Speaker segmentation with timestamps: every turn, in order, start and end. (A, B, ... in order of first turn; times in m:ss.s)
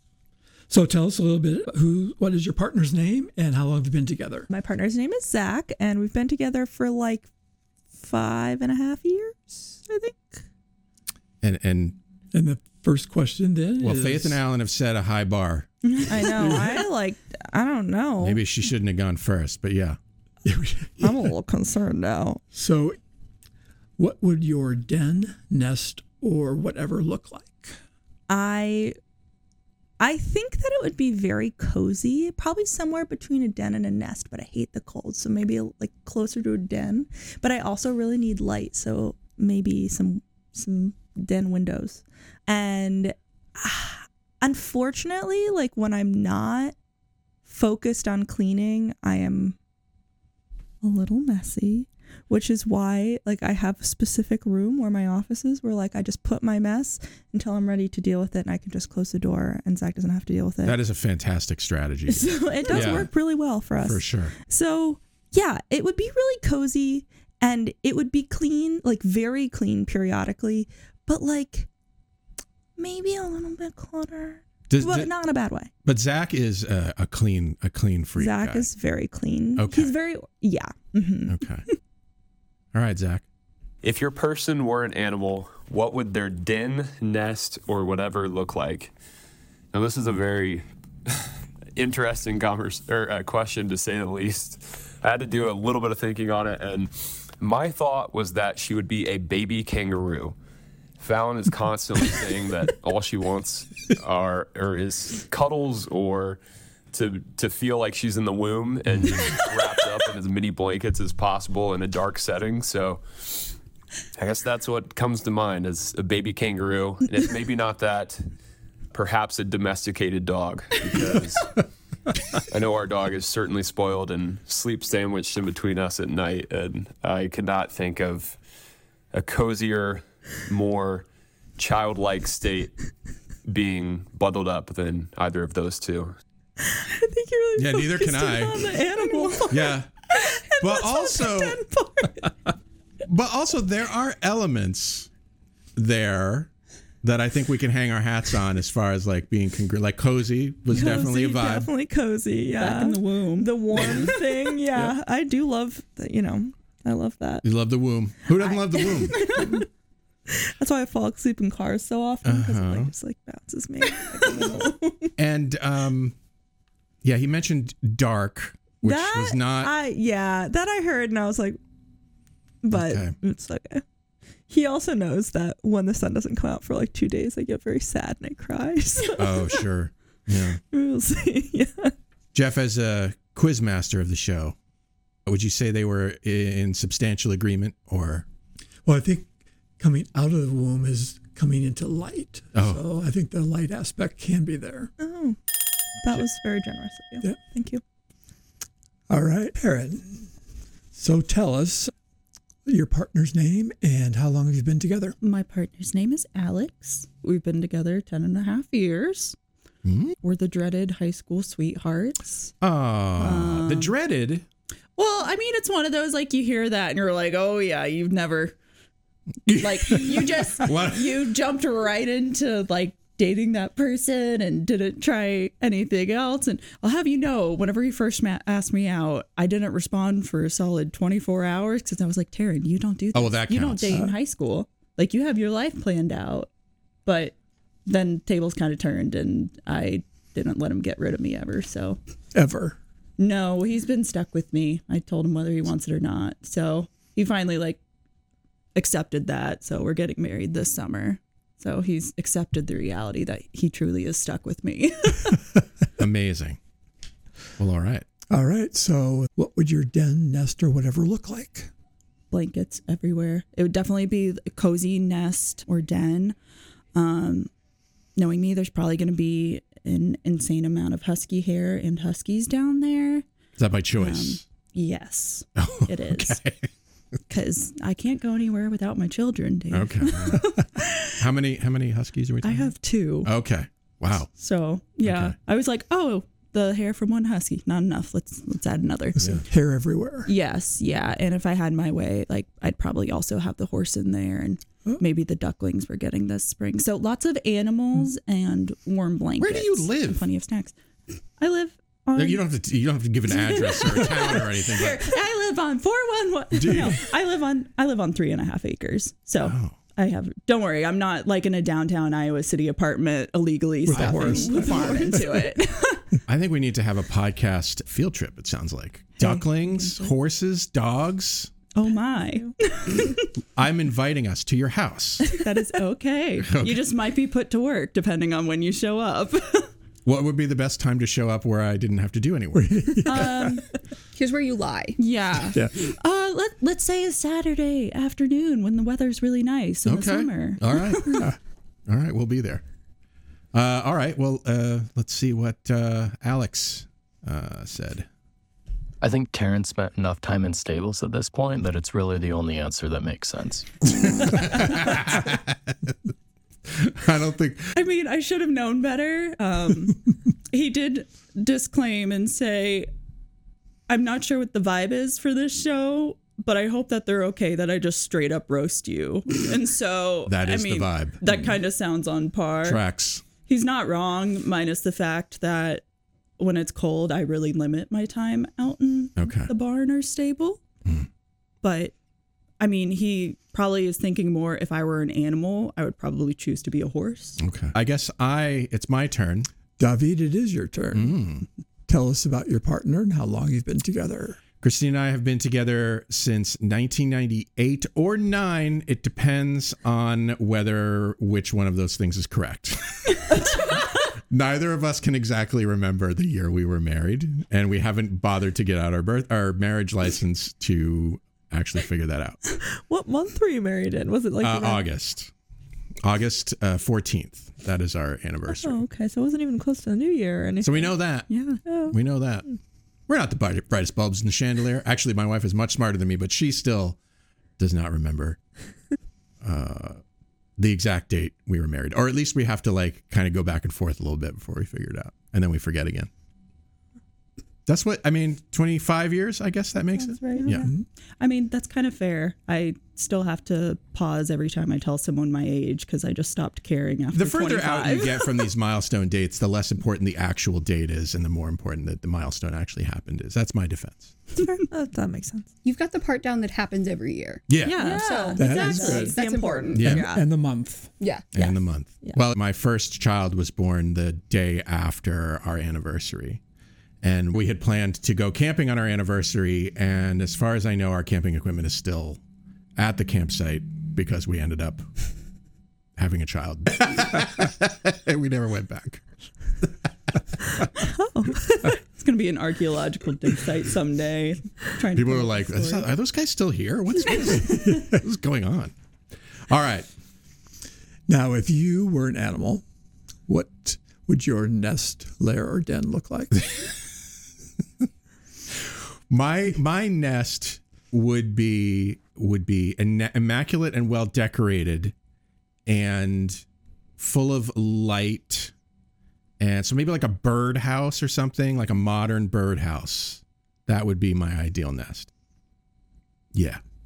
0:00.7-0:04.5 A
0:04.5-0:07.3 B
0:07.9-0:10.4 B
0:11.4-0:12.0 C
0:12.3-0:14.4 A
0:13.8-0:15.7 C
0:15.9-0:16.7 D
0:16.1-0:18.4 B
0:18.2-0:20.0 C
0:20.5-0:21.1 A
0:21.0-0:22.4 B
0:22.5-0:23.0 A
0:24.0-0:27.8 A
0:28.3-0:29.0 B
0:30.0-0:46.8 B
0:47.5-0:49.6 B
0:50.8-1:00.8 B
1:00.6-1:03.1 C
1:02.1-1:11.7 B
1:03.8-1:04.3 C
1:12.8-1:15.7 B
1:14.7-1:15.1 C
1:15.8-1:18.7 C
1:18.2-1:21.3 B
1:19.6-1:19.9 C
1:21.3-1:21.6 C
1:22.7-1:23.2 C
1:23.8-1:28.9 E
1:29.7-1:40.4 E
1:41.0-1:46.4 E
1:46.9-1:53.5 E
1:54.2-1:58.3 E
1:58.9-2:01.6 E
2:02.5-2:08.4 E
2:09.1-2:11.1 E
2:11.6-2:12.8 E
2:13.4-2:16.2 E
2:16.6-2:22.3 B
2:17.6-2:18.7 C
2:19.0-2:19.5 D
2:19.5-2:19.9 C
2:20.6-2:21.6 C
2:23.1-2:25.1 C
2:25.8-2:26.5 C
2:27.0-2:31.7 C
2:30.7-2:37.5 B
2:32.6-2:34.1 D
2:33.8-2:34.0 C
2:37.4-2:39.4 C
2:38.4-2:39.7 B
2:40.3-2:45.1 B
2:42.2-2:42.9 C
2:45.2-2:46.2 C
2:47.0-2:49.7 C
2:48.8-2:51.6 B
2:52.6-2:53.8 B
2:52.7-2:53.2 C
2:54.5-2:59.6 B
2:59.2-3:00.6 C
3:00.7-3:01.9 B
3:02.3-3:04.6 C
3:05.3-3:08.3 C
3:08.8-3:14.9 A
3:12.5-3:12.8 C
3:15.0-3:15.4 B
3:16.0-3:17.8 B
3:19.1-3:20.3 A
3:21.0-3:21.9 A
3:22.7-3:25.2 A
3:25.2-3:29.4 D
3:29.8-3:30.2 C
3:30.2-3:32.5 D
3:32.6-3:34.4 C
3:33.2-3:34.0 D
3:35.0-3:38.6 D
3:39.5-3:41.3 C
3:39.6-3:56.5 D
3:53.1-3:54.0 C
3:53.9-3:54.2 A
3:57.1-4:02.0 D
4:02.3-4:02.8 A
4:03.2-4:07.8 D
4:08.8-4:15.4 D
4:16.0-4:16.6 C
4:17.6-4:18.1 C
4:18.3-4:21.7 A
4:22.3-4:26.4 D
4:27.0-4:27.5 D
4:28.2-4:33.3 D
4:33.6-4:34.4 C
4:34.0-4:36.4 D
4:35.6-4:36.7 C
4:37.3-4:41.1 D
4:39.7-4:42.7 C
4:42.4-4:43.3 D
4:43.2-4:44.3 C
4:44.4-4:49.2 D
4:45.0-4:45.4 C
4:49.2-4:50.3 A
4:49.2-4:49.5 C
4:50.3-5:00.8 D
4:59.4-5:00.2 C
5:01.4-5:02.5 D
5:02.2-5:05.1 C
5:03.3-5:16.0 D
5:06.6-5:07.0 C
5:09.4-5:09.8 C
5:13.9-5:15.5 A
5:13.9-5:15.3 C
5:16.3-5:21.5 C
5:21.8-5:23.2 D
5:22.2-5:22.5 B
5:23.6-5:25.3 C
5:25.4-5:29.7 D
5:26.4-5:26.8 C
5:30.0-5:33.1 C
5:32.5-5:33.6 A
5:33.0-5:33.7 D
5:34.1-5:35.0 F
5:35.0-5:41.2 D
5:35.5-5:35.9 A
5:39.9-5:41.3 C
5:41.9-5:42.6 C
5:43.5-5:48.1 C
5:49.0-5:53.8 G
5:54.2-5:55.9 C
5:56.7-5:57.7 C
5:57.8-6:02.9 D
6:03.9-6:12.8 D
6:10.3-6:11.5 C
6:12.6-6:13.2 C
6:13.4-6:15.8 D
6:16.4-6:20.6 D
6:19.2-6:19.5 C
6:21.6-6:21.9 D
6:22.6-6:27.4 D
6:27.4-6:29.5 C
6:29.8-6:31.3 A
6:30.9-6:31.5 C
6:31.9-6:34.4 A
6:34.6-6:43.2 C
6:44.3-6:52.4 C
6:52.6-6:54.9 B
6:54.4-6:55.3 C
6:56.0-6:58.8 C
6:58.5-7:01.0 B
7:00.6-7:01.3 C
7:01.3-7:01.6 D
7:01.6-7:02.0 B
7:01.9-7:02.5 C
7:03.1-7:07.0 C
7:07.6-7:08.4 C
7:09.4-7:10.0 C
7:10.6-7:16.1 C
7:17.7-7:20.7 C
7:20.0-7:20.7 B
7:20.3-7:28.4 D
7:27.1-7:34.2 C
7:34.4-7:35.5 B
7:35.6-7:40.0 F
7:37.5-7:38.0 C
7:37.6-7:39.2 D
7:37.7-7:40.3 B
7:38.4-7:39.2 A
7:39.8-7:40.1 C
7:39.8-7:40.9 A
7:41.0-7:41.5 F
7:41.4-7:46.4 C
7:47.0-7:52.2 C
7:52.8-7:54.9 C
7:56.0-7:59.0 C
8:01.0-8:01.7 B
8:01.7-8:05.9 D
8:05.0-8:08.7 C
8:09.5-8:09.9 C
8:11.1-8:12.6 A
8:13.3-8:16.4 A
8:19.1-8:24.9 C
8:25.7-8:26.4 C
8:27.0-8:28.5 C
8:29.4-8:35.1 C
8:36.3-8:36.6 C